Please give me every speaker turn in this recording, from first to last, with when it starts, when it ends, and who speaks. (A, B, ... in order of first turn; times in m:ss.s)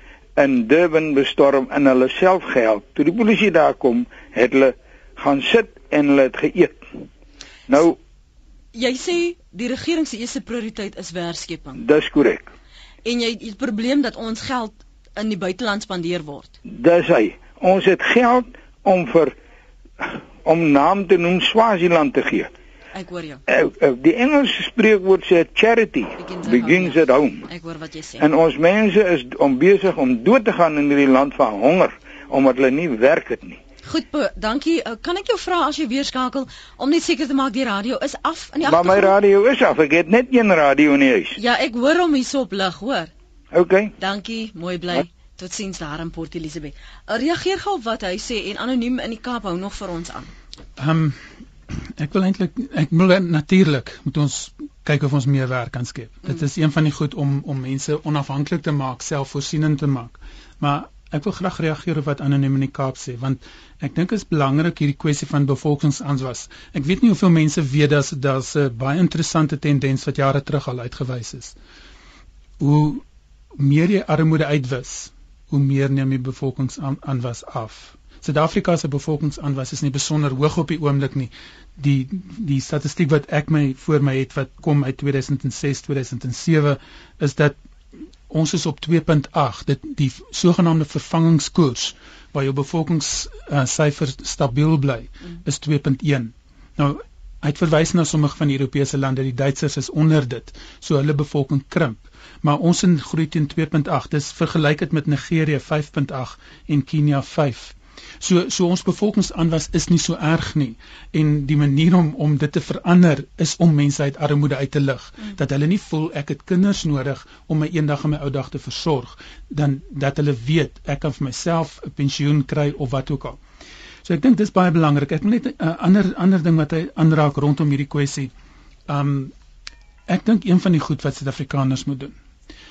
0:00.4-0:06.9 A
0:07.7-0:08.0 A
0:08.7-0:11.8 B
0:11.8-0:12.5 A
0:13.0-0:16.5 B
0:16.7-0:19.3 A
0:20.0-0:22.5 A
0:22.9-0:23.4 B
0:23.5-0:27.4 A
0:26.2-0:28.2 B
0:28.2-0:33.6 A
0:33.8-0:39.1 B
0:38.6-0:41.4 A
0:41.3-0:43.1 B
0:43.5-0:43.9 A
0:44.0-0:50.3 B
0:50.8-1:11.6 C
1:12.6-1:13.0 C
1:13.5-1:27.6 C
1:28.3-2:03.4 C
2:04.0-2:08.3 C
2:08.9-2:09.3 C
2:10.1-2:12.1 C